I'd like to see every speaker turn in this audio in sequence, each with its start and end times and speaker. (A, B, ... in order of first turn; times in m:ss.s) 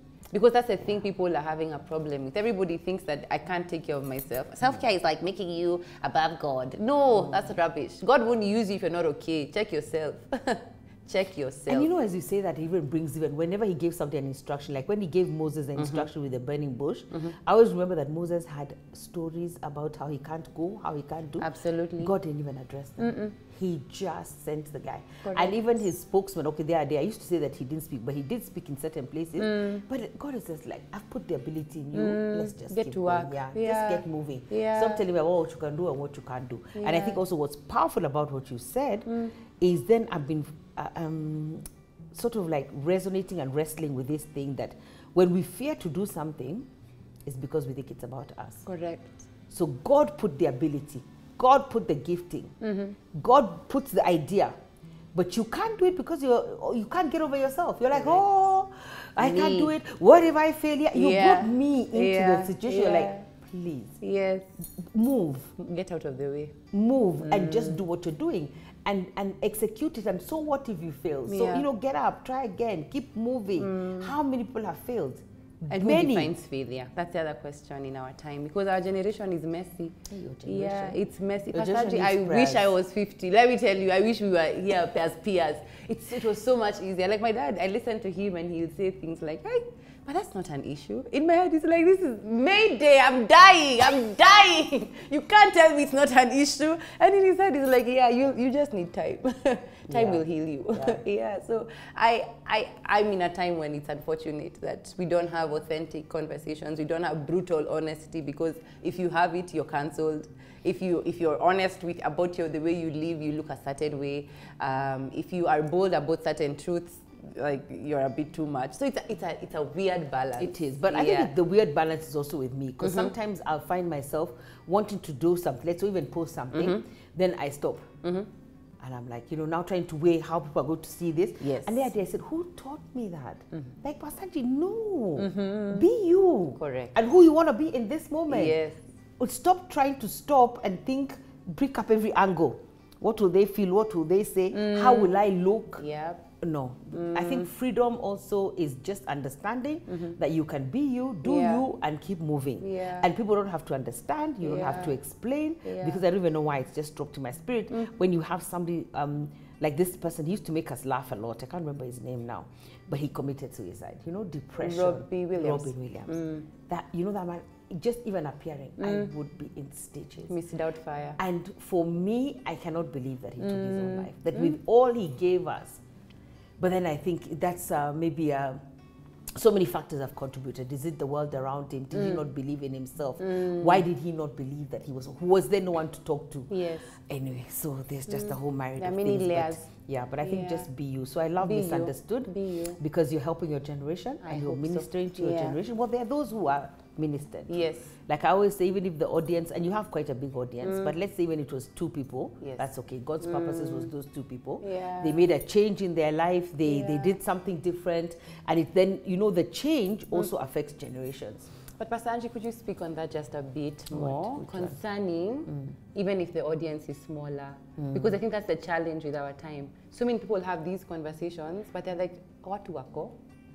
0:00.3-0:11.9 A
0:11.7-0:39.1 B
0:15.8-0:16.1 A
0:21.4-0:22.1 A
0:23.0-0:23.4 A
0:25.2-0:25.6 A
0:29.4-0:29.8 A
0:31.9-0:35.0 A
0:36.8-0:37.2 A
0:39.1-0:39.4 A
0:39.6-0:46.7 B
0:47.3-0:48.7 B
0:48.7-0:49.1 A
0:49.5-0:52.5 B
0:52.6-0:53.0 A
0:53.1-0:54.6 B
0:55.1-1:04.0 B
0:57.9-0:58.3 A
0:59.2-0:59.8 A
1:00.9-1:03.3 A
1:04.0-1:04.5 A
1:04.9-1:05.5 B
1:05.6-1:06.6 A
1:06.7-1:16.3 B
1:07.2-1:07.8 A
1:11.3-1:11.7 A
1:13.6-1:14.2 A
1:15.7-2:01.4 A
1:20.1-1:21.0 B
1:21.5-1:22.8 B
1:39.9-1:41.0 B
2:00.4-2:07.9 B
2:02.8-2:03.1 A
2:06.5-2:06.8 A
2:08.0-2:08.3 A
2:08.8-2:18.6 B
2:11.4-2:11.9 A
2:15.2-2:15.9 A
2:16.6-2:17.0 A
2:18.3-2:18.8 A
2:19.2-2:25.8 B
2:24.5-2:25.2 A
2:25.8-2:26.2 A
2:26.4-2:50.4 B
2:26.9-2:27.5 A
2:29.9-2:30.2 A
2:31.2-2:31.7 A
2:32.6-2:33.1 A
2:34.4-2:35.0 A
2:35.6-2:36.0 A
2:44.6-2:46.5 A
2:48.8-2:49.1 A
2:50.3-2:51.2 A
2:51.2-2:55.8 B
2:53.4-2:54.6 A
2:56.6-2:58.6 B
2:59.4-3:31.5 B
3:02.0-3:02.3 A
3:03.2-3:03.9 A
3:06.5-3:07.0 A
3:08.1-3:09.6 A
3:10.2-3:10.7 A
3:11.4-3:12.8 A
3:14.2-3:15.6 A
3:17.5-3:17.9 A
3:20.6-3:21.0 A
3:22.4-3:22.7 A
3:23.2-3:23.9 A
3:24.6-3:25.3 A
3:26.6-3:27.2 A
3:31.8-3:43.2 A
3:33.9-3:34.8 B
3:37.8-3:38.2 B